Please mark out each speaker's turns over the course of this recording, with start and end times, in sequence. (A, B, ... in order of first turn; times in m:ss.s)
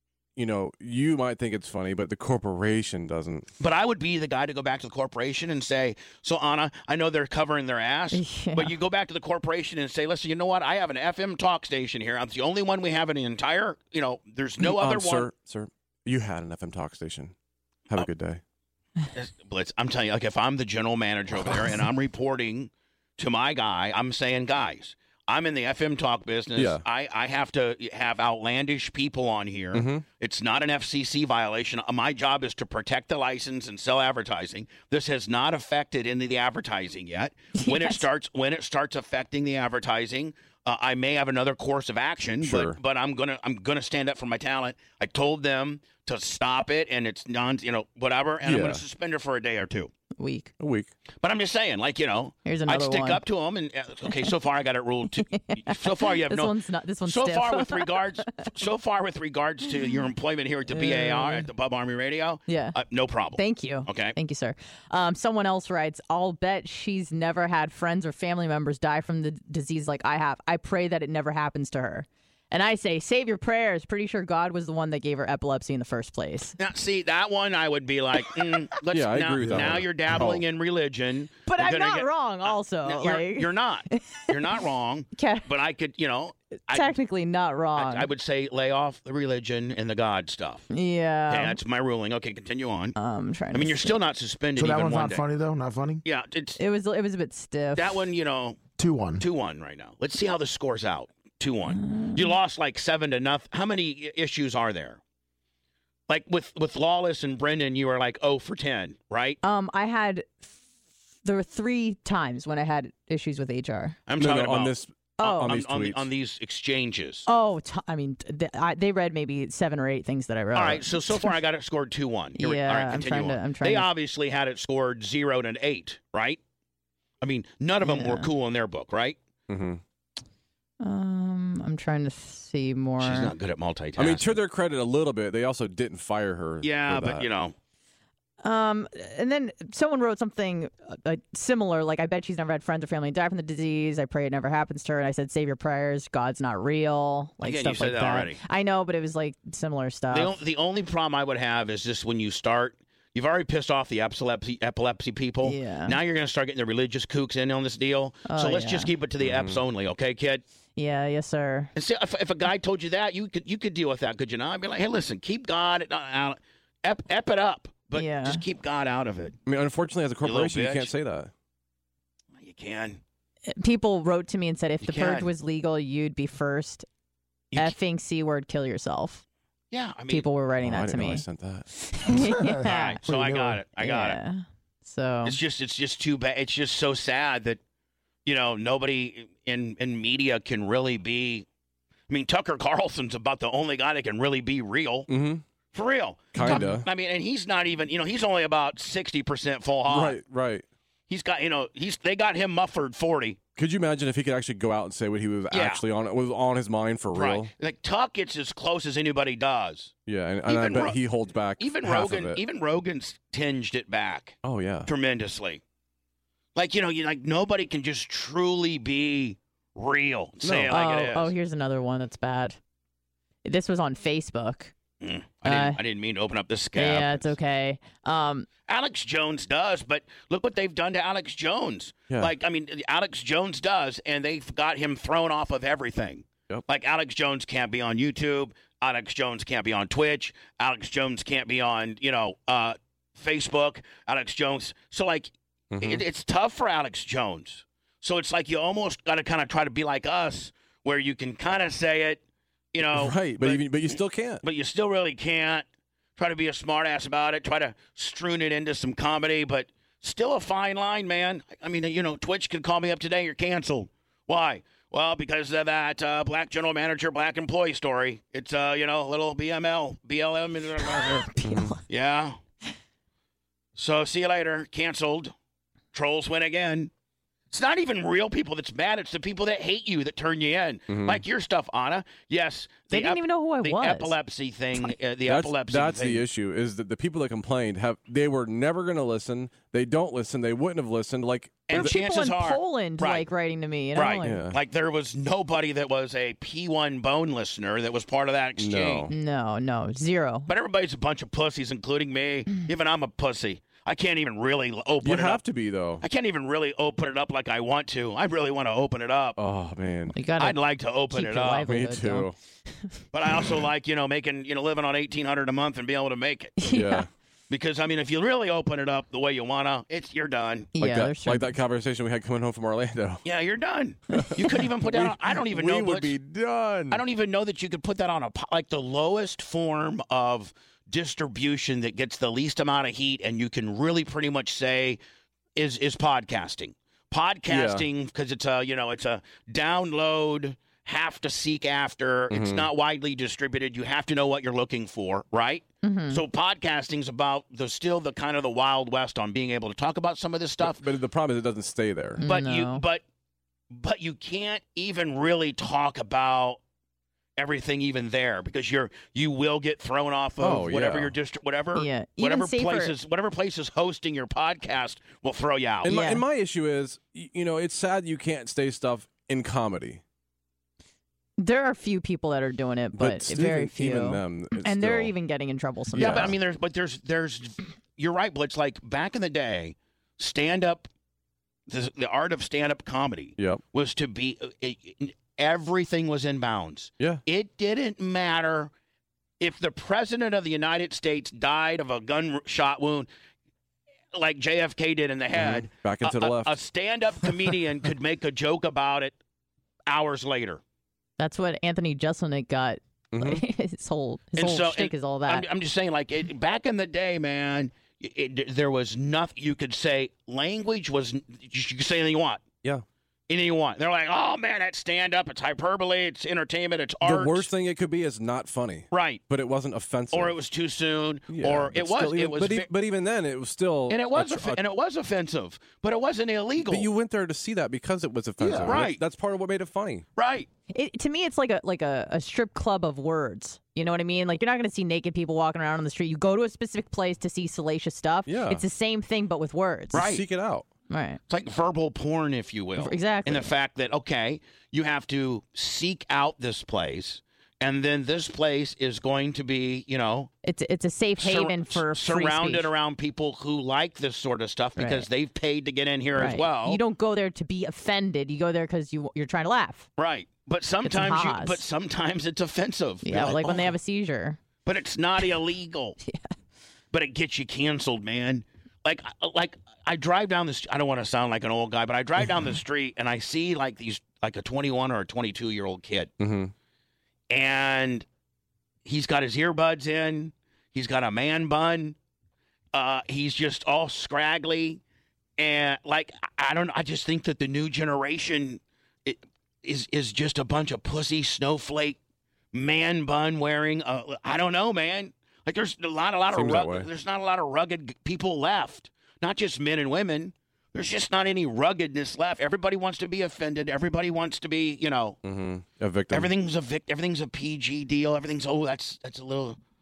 0:00.4-0:03.5 A
0:03.6-0:15.3 B
0:08.1-0:08.8 C
0:14.6-0:17.3 A
0:17.9-0:18.4 A
0:19.1-0:49.9 B
0:26.6-0:26.8 A
0:29.7-0:30.0 A
0:37.6-0:38.0 C
0:42.4-0:42.8 A
0:48.4-0:48.8 A
0:50.2-0:50.5 C
0:50.6-0:50.9 A
0:51.2-0:56.6 B
0:52.5-0:53.2 C
0:55.2-0:58.0 C
0:57.1-1:04.2 B
1:00.7-1:01.5 C
1:02.5-1:02.8 C
1:03.4-1:16.6 C
1:16.6-1:26.9 B
1:18.9-1:20.4 A
1:19.4-1:20.3 D
1:21.5-1:24.2 C
1:25.2-1:25.5 C
1:26.7-1:28.1 C
1:27.8-1:30.7 B
1:30.7-1:31.6 C
1:31.3-1:33.0 B
1:33.0-1:34.0 C
1:33.5-1:35.2 B
1:34.6-1:36.0 D
1:36.0-1:36.6 B
1:36.6-1:38.0 C
1:37.8-1:38.6 B
1:38.8-1:39.2 D
1:39.2-1:45.0 B
1:41.7-1:42.3 C
1:46.1-1:49.4 B
1:49.4-1:50.4 C
1:51.2-1:54.0 C
1:54.1-1:57.3 B
1:54.2-1:56.1 A
1:55.2-1:55.5 C
1:57.3-2:01.3 C
2:00.5-2:06.4 B
2:02.4-2:03.9 C
2:07.2-2:09.2 B
2:07.8-2:08.3 C
2:09.5-2:09.8 A
2:10.8-2:13.3 C
2:13.0-2:14.4 B
2:14.0-2:17.3 A
2:16.6-2:17.6 B
2:18.4-2:30.4 C
2:27.4-2:28.4 B
2:30.1-2:40.4 B
2:35.4-2:36.0 C
2:38.3-2:38.9 C
2:39.2-2:39.6 A
2:40.8-2:41.7 C
2:41.8-2:49.4 B
2:48.0-2:48.4 C
2:49.5-2:51.3 A
2:50.2-2:50.9 B
2:52.4-2:53.0 B
2:53.5-2:56.9 C
2:54.8-2:55.3 B
2:57.6-2:59.2 C
2:59.7-3:00.2 B
3:00.1-3:01.3 C
3:00.6-3:01.7 A
3:01.8-3:03.0 C
3:02.2-3:03.6 D
3:02.6-3:04.2 B
3:03.8-3:05.4 C
3:05.2-3:07.6 B
3:08.2-3:11.5 B
3:12.1-3:15.1 B
3:15.1-3:15.4 A
3:15.7-3:20.2 B
3:16.3-3:16.9 A
3:19.9-3:20.6 A
3:21.1-3:23.4 B
3:23.6-3:27.5 A
3:25.5-3:25.8 B
3:27.1-3:29.9 B
3:30.1-3:32.4 A
3:30.5-3:31.0 B
3:31.6-3:35.6 B
3:34.4-3:34.9 A
3:36.6-3:41.3 B
3:40.4-3:40.7 A
3:40.7-3:42.6 C
3:43.4-3:44.7 C
3:45.0-3:47.3 B
3:45.4-3:45.8 C
3:46.8-3:48.5 C
3:48.7-4:12.2 B
4:05.7-4:06.0 A
4:12.7-4:15.6 B
4:12.9-4:14.4 A
4:16.2-4:31.3 B
4:30.8-4:31.8 C
4:31.4-4:31.8 A
4:31.9-4:32.4 B
4:33.8-4:35.3 B
4:35.9-4:36.9 B
4:37.5-4:46.2 B
4:40.9-4:41.2 A
4:42.9-4:44.2 C
4:45.3-4:51.9 A
4:51.7-4:53.3 B
4:51.7-4:54.5 C
4:54.0-4:59.1 B
4:54.2-4:54.6 A
4:58.6-4:59.1 A
4:59.1-5:00.5 C
5:00.5-5:05.4 B
5:05.0-5:06.0 A
5:06.0-5:09.4 B
5:09.4-5:10.2 A
5:10.1-5:10.6 C
5:10.4-5:11.7 B
5:11.1-5:12.3 C
5:11.6-5:12.4 A
5:13.1-5:16.6 B
5:16.6-5:17.1 C
5:16.7-5:17.1 A
5:17.5-5:20.7 B
5:20.8-5:21.6 C
5:20.8-5:23.2 A
5:23.2-5:26.1 B
5:24.8-5:27.0 A
5:26.9-5:35.0 B
5:35.6-5:50.8 B
5:37.5-5:37.9 A
5:42.3-5:42.7 A
5:45.8-5:46.2 C
5:50.6-5:52.2 A
5:52.2-5:52.8 C
5:52.2-5:53.0 B
5:53.7-5:56.6 B
5:57.4-6:05.9 B
6:00.4-6:01.2 A
6:01.8-6:02.9 C
6:05.8-6:10.0 A
6:05.9-6:06.2 C
6:11.4-6:16.3 C
6:12.9-6:15.1 A
6:15.9-6:16.4 A
6:16.0-6:20.9 B
6:21.7-6:28.7 B
6:29.4-6:33.1 B
6:34.1-6:39.2 B
6:35.3-6:36.6 A
6:39.9-6:40.6 B
6:41.2-6:45.5 C
6:43.1-6:43.4 A
6:44.4-6:52.5 B
6:53.3-6:57.5 B
6:57.0-7:00.4 A
6:58.9-6:59.2 B
7:00.1-7:02.7 B
7:01.3-7:04.6 A
7:03.9-7:06.9 B
7:06.7-7:10.0 A
7:08.4-7:08.8 D
7:08.6-7:09.0 B
7:10.2-7:10.5 B
7:10.7-7:20.0 C
7:18.3-7:18.6 A
7:19.9-7:20.2 B
7:19.9-7:20.7 A
7:20.9-7:21.2 C
7:21.3-7:30.3 B
7:22.8-7:23.5 C
7:30.4-7:32.7 C
7:31.2-7:36.8 B
7:34.8-7:35.1 C
7:36.2-7:39.9 C
7:40.0-7:43.8 B
7:40.8-7:41.6 C
7:43.0-7:44.4 C
7:44.6-7:46.0 B
7:46.9-7:56.1 B
7:56.2-7:56.5 A
7:57.3-7:58.1 B
7:58.8-8:02.0 B
8:02.7-8:04.8 B
8:05.4-8:12.0 B
8:12.5-8:25.2 B
8:16.3-8:16.9 A
8:25.2-8:26.3 A
8:26.1-8:29.6 B